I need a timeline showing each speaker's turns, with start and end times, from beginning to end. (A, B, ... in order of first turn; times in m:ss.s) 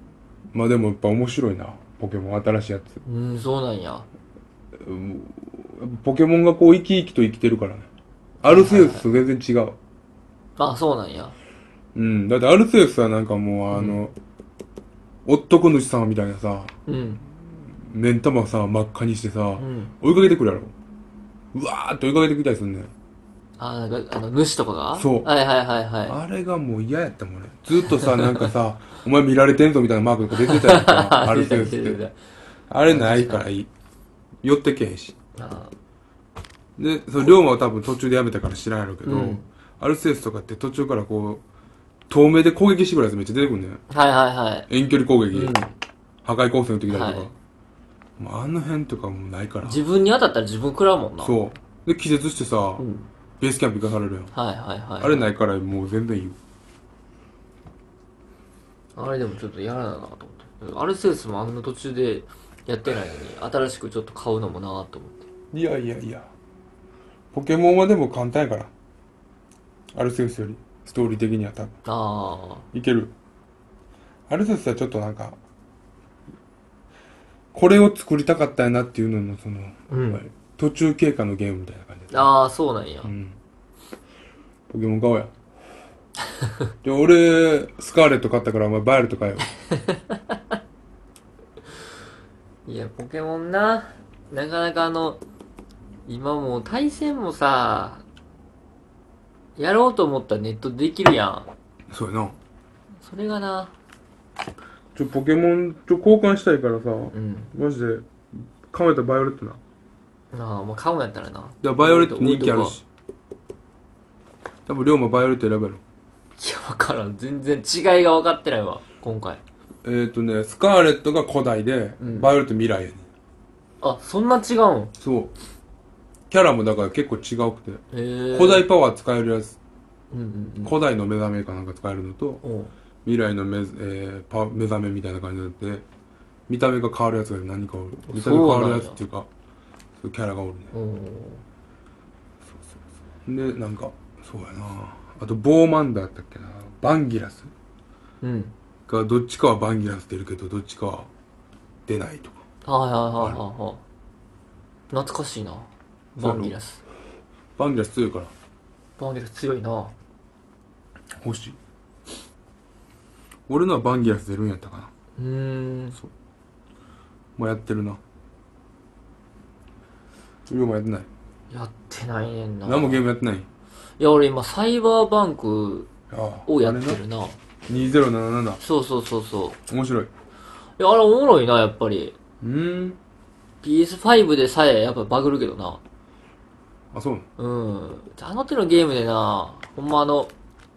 0:00.5-0:03.0 A
0:03.0-0:04.1 B
0:04.8-0:07.9 A
0:08.4-0:09.8 A
0:08.5-0:09.0 B
0:10.6-0:11.3 B
0:11.9-0:14.1 A
0:13.7-0:14.0 B
0:15.2-0:16.7 A
0:16.9-0:17.2 B
0:17.7-0:20.7 A
0:19.6-0:19.9 B
0:21.5-0:22.9 A
0:23.6-0:26.2 B
0:24.9-0:25.3 A
0:26.0-0:32.0 A
0:27.9-0:28.5 B
0:30.3-0:32.2 B
0:32.7-0:33.7 A
0:32.9-0:33.4 B
0:34.4-0:35.2 A
0:35.4-0:35.7 B
0:36.8-0:41.4 A
0:39.0-0:39.4 B
0:42.1-0:43.8 A
0:43.9-0:44.7 B
0:44.7-0:45.6 A
0:45.3-0:45.7 B
0:46.2-0:47.3 A
0:46.9-0:47.3 B
0:48.2-0:49.8 A
0:49.6-0:51.4 B
0:51.2-0:52.8 A
0:52.8-0:53.1 B
0:53.4-0:54.3 A
0:54.3-0:55.3 B
0:55.0-0:56.4 A
0:59.0-1:05.2 B
1:05.5-1:06.3 A
1:07.3-1:08.7 A
1:09.9-1:11.8 A
1:11.8-1:12.6 B
1:12.7-1:13.1 A
1:14.3-1:15.4 A
1:17.5-1:22.3 A
1:19.9-1:20.2 B
1:22.1-1:23.1 B
1:23.0-1:23.4 A
1:24.7-1:25.3 A
1:26.8-1:29.5 A
1:29.7-1:30.2 B
1:32.6-1:35.2 B
1:36.0-1:38.0 B
1:39.6-1:41.5 B
1:41.9-1:42.4 A
1:43.0-1:43.7 B
1:44.9-1:49.6 A
1:47.1-1:47.5 B
1:50.3-1:52.8 B
1:51.6-1:52.8 A
1:54.7-1:55.8 A
1:56.4-1:59.4 B
1:59.8-2:03.0 A
2:02.0-2:02.3 B
2:03.8-2:04.9 B
2:05.0-2:05.3 A
2:06.3-2:09.6 A
2:07.9-2:08.6 B
2:10.1-2:10.7 B
2:10.6-2:12.4 A
2:12.4-2:12.7 B
2:13.0-2:15.8 A
2:16.5-2:19.3 A
2:18.1-2:19.0 B
2:20.0-2:20.7 A
2:20.7-2:21.4 B
2:23.2-2:27.5 A
2:28.2-2:28.5 B
2:28.9-2:31.1 A
2:31.8-2:32.4 A
2:32.6-2:33.8 B
2:34.9-2:36.8 B
2:36.2-2:36.6 A
2:37.6-2:38.3 A
2:39.0-2:39.9 B
2:41.2-2:41.6 A
2:43.5-2:44.9 A
2:45.2-2:46.0 B
2:47.4-2:48.0 A
2:50.5-2:51.1 A
2:51.5-2:53.0 B
2:52.6-2:53.5 A
2:54.0-2:55.9 B
2:56.1-2:57.0 A
2:56.5-2:57.4 B
2:57.7-2:58.6 A
2:58.6-2:59.6 B
2:59.7-3:00.1 A
3:00.8-3:02.2 B
3:02.4-3:03.0 A
3:03.6-3:05.8 B
3:06.9-3:07.2 A
3:07.4-3:10.3 B